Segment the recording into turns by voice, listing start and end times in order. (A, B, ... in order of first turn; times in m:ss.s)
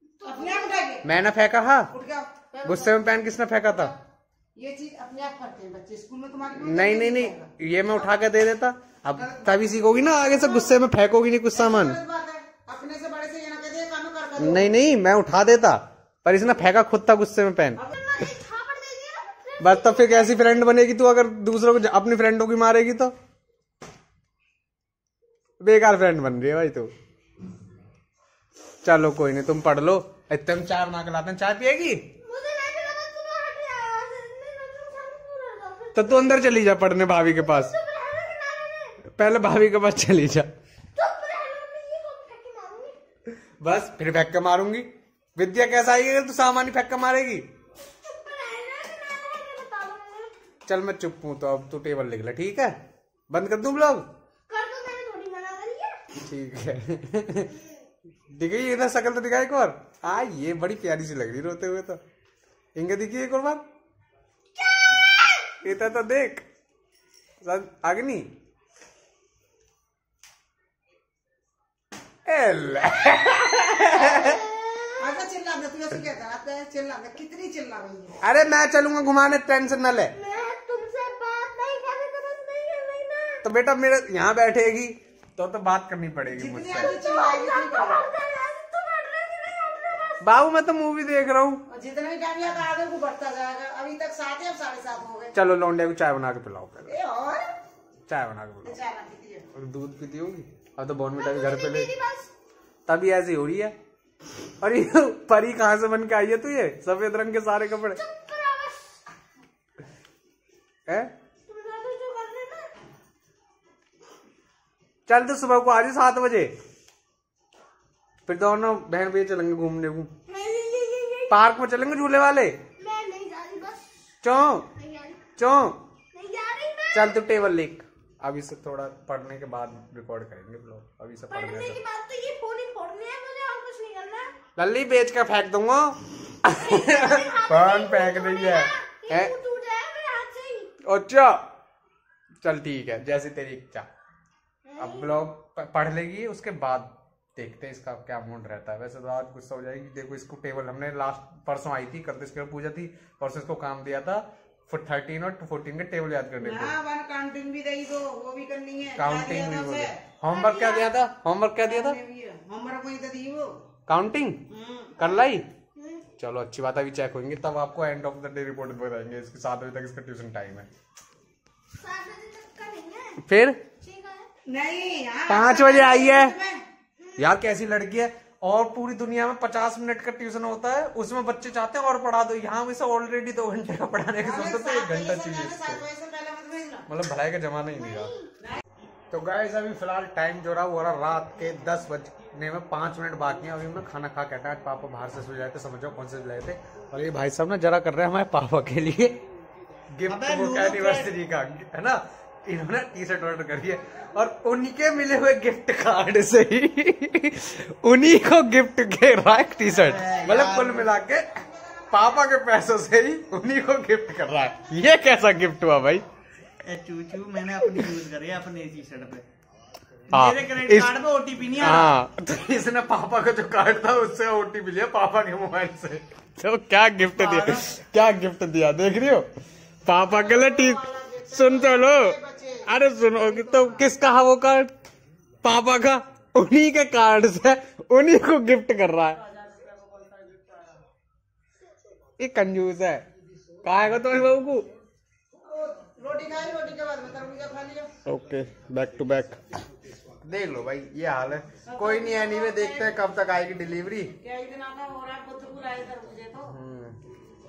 0:00.2-0:01.0 A
0:00.2-0:01.0 B
0:01.0-0:01.9 C
0:01.9-0:02.9 B
0:02.6-0:03.9 C
0:04.6-0:07.5 B
0:06.6-0:12.0 C
0:09.2-0:10.8 B
0:11.5-0:14.7 B
0:14.4-0:17.8 C
0:17.9-0:20.5 A
0:19.6-0:23.1 C
0:25.6-0:26.9 C
0:28.8-0:32.0 C
0:32.2-0:36.7 A
0:36.0-0:37.8 C
0:37.4-0:39.0 A
0:39.1-0:40.5 C
0:41.0-0:43.0 A
0:43.6-0:47.4 C
0:48.0-0:50.3 A
0:50.7-0:52.7 C
0:53.3-0:54.0 C
0:54.5-0:56.0 A
0:56.2-0:57.5 C
0:58.4-1:02.0 C
1:02.8-1:03.6 C
1:04.6-1:05.6 A
1:05.6-1:06.4 C
1:07.4-1:08.3 C
1:12.3-1:14.4 C
1:13.7-1:15.2 A
1:15.0-1:18.2 B
1:18.2-1:20.1 C
1:20.2-1:23.4 A
1:23.4-1:26.9 C
1:26.3-1:28.0 B
1:26.7-1:30.2 A
1:30.2-1:31.6 C
1:31.7-1:35.3 B
1:35.4-1:36.9 C
1:36.9-1:37.4 B
1:38.1-1:38.8 C
1:38.6-1:39.4 B
1:39.5-1:41.9 C
1:41.2-1:42.3 A
1:42.9-1:43.8 C
1:44.6-1:48.0 C
1:47.9-1:49.0 A
1:51.5-1:52.7 A
1:55.1-1:56.5 C
1:58.3-2:00.1 C
2:00.3-2:01.4 A
2:01.3-2:02.6 C
2:02.8-2:03.9 A
2:04.2-2:04.7 C
2:04.8-2:05.2 A
2:05.4-2:05.8 C
2:06.1-2:07.2 A
2:06.9-2:11.8 C
2:11.3-2:14.3 A
2:14.6-2:19.3 C
2:16.5-2:20.7 A
2:20.8-2:21.4 C
2:22.4-2:23.9 C
2:24.6-2:25.2 A
2:24.8-2:36.7 C
2:36.4-2:40.0 B
2:39.0-2:42.0 C
2:40.3-2:40.9 A
2:41.6-2:43.5 B
2:43.9-2:44.4 C
2:44.5-2:45.1 B
2:45.0-2:45.4 C
2:45.8-2:46.1 A
2:46.2-2:50.7 C
2:51.8-2:53.2 A
2:53.2-2:53.6 C
2:53.8-2:54.3 A
2:54.5-2:56.6 B
2:55.3-2:56.3 C
2:57.0-2:57.2 A
2:57.2-3:05.8 C
3:04.2-3:06.9 B
3:06.9-3:08.1 C
3:07.8-3:08.3 A
3:09.1-3:19.2 C
3:20.0-3:31.2 C
3:20.1-3:21.1 D
3:29.8-3:30.8 D
3:31.9-3:36.0 C
3:36.6-3:39.2 D
3:40.1-3:41.0 C
3:40.1-3:42.0 D
3:41.5-3:49.3 C
3:47.2-3:47.7 D
3:49.8-3:52.2 C
3:50.0-3:53.9 B
3:52.7-3:54.7 C
3:55.4-3:59.2 C
3:59.2-4:00.7 B
4:02.2-4:03.0 C
4:03.6-4:04.7 C
4:05.5-4:07.9 B
4:08.1-4:09.4 C
4:10.2-4:14.1 C
4:11.7-4:13.0 B
4:14.2-4:16.5 B
4:16.5-4:17.0 C